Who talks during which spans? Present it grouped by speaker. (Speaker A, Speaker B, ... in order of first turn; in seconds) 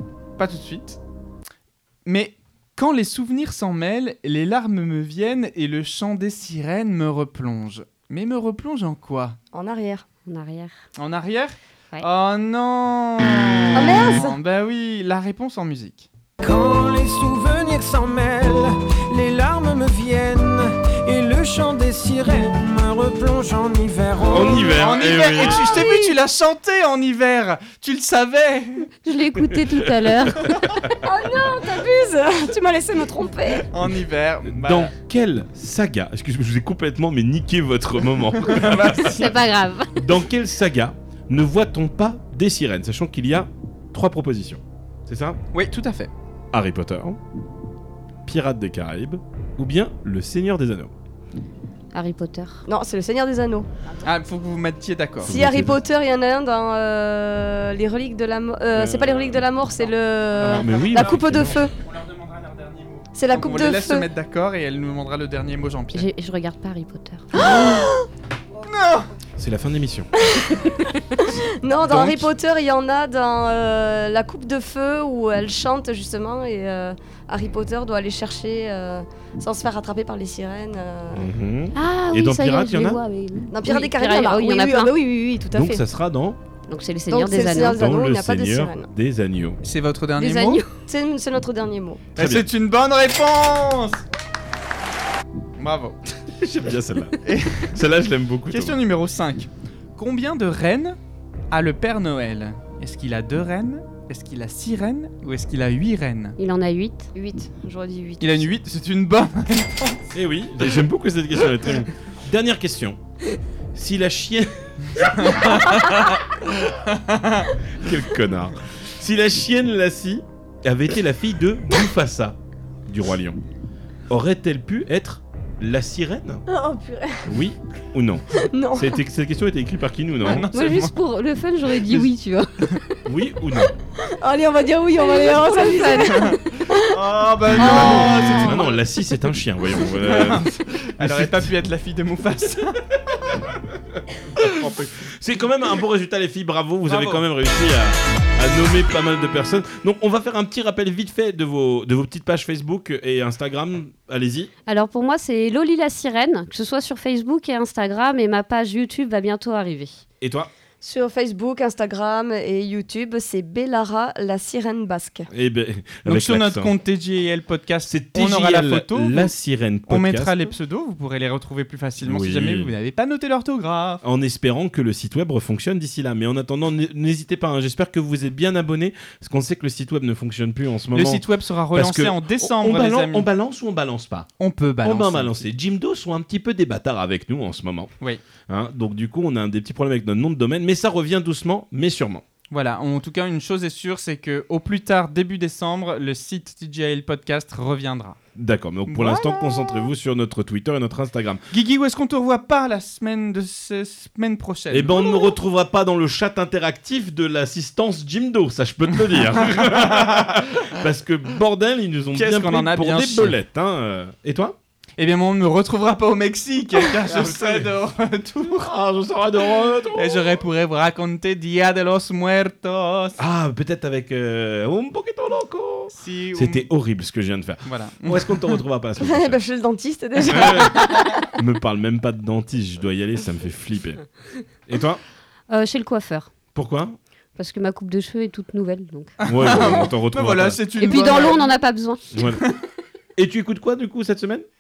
Speaker A: 0.4-1.0, 2.1-9.4, 11.0-16.1, 24.4-28.9, 30.5-30.8, 33.7-34.9, 38.4-39.4, 45.5-46.1, 54.0-55.4, 60.4-66.1, 67.3-67.9, 68.6-69.1, 71.9-72.3, 89.6-90.7, 92.2-94.0, 95.6-96.0, 97.2-97.8, 98.5-101.0, 101.5-106.4, 108.2-110.1, 115.0-117.6, 130.2-130.9, 135.9-138.8, 139.9-142.9, 146.9-147.2, 166.1-169.3, 169.9-174.0, 180.9-183.3, 184.4-185.4, 192.5-198.2, 198.9-199.2, 201.5-205.0, 209.5-210.5, 212.2-213.4, 215.0-218.7, 219.9-223.2, 225.9-226.7, 227.7-228.6, 239.2-241.4, 242.2-242.6
Speaker B: 9.5-10.1, 13.7-14.4, 25.4-26.1, 31.0-33.7, 52.7-54.0, 55.2-61.7, 63.2-64.1, 67.3-68.1, 70.2-81.3, 83.5-85.8, 87.1-88.9, 90.8-92.0, 107.2-108.5, 126.5-127.4, 128.5-129.0, 134.0-137.0, 137.6-138.6, 160.8-165.3, 229.0-231.3
Speaker C: 10.3-10.8, 29.0-30.9, 39.1-40.0, 51.9-52.7, 65.9-67.3, 81.8-84.9, 86.7-87.8, 90.2-90.7, 106.4-107.1, 130.5-132.8, 135.0-136.4, 154.7-160.0, 235.5-236.3, 237.4-239.2, 240.8-242.0
Speaker D: 16.4-24.7
Speaker E: 24.3-25.9, 29.5-30.9, 34.5-39.4, 39.9-45.4, 46.5-47.2, 48.2-50.9, 55.2-55.8, 58.7-59.4, 60.4-61.7, 69.4-70.1, 81.1-83.0, 85.5-86.4, 87.6-89.6, 92.2-92.5, 96.4-97.2, 97.7-98.8, 110.1-113.0, 113.8-115.9, 117.7-123.4, 124.1-126.4, 127.3-130.5, 133.1-133.7, 137.5-141.5, 143.9-154.5, 160.2-160.5, 165.3-166.7, 167.9-170.3, 172.0-172.7, 174.0-184.3, 184.8-187.9, 188.5-192.2, 198.4-201.4, 204.7-214.6, 217.0-217.7, 218.6-220.4, 223.2-229.4, 230.2-234.1, 234.7-235.0, 236.6-236.9, 239.3-240.6, 242.1-242.4, 243.2-244.4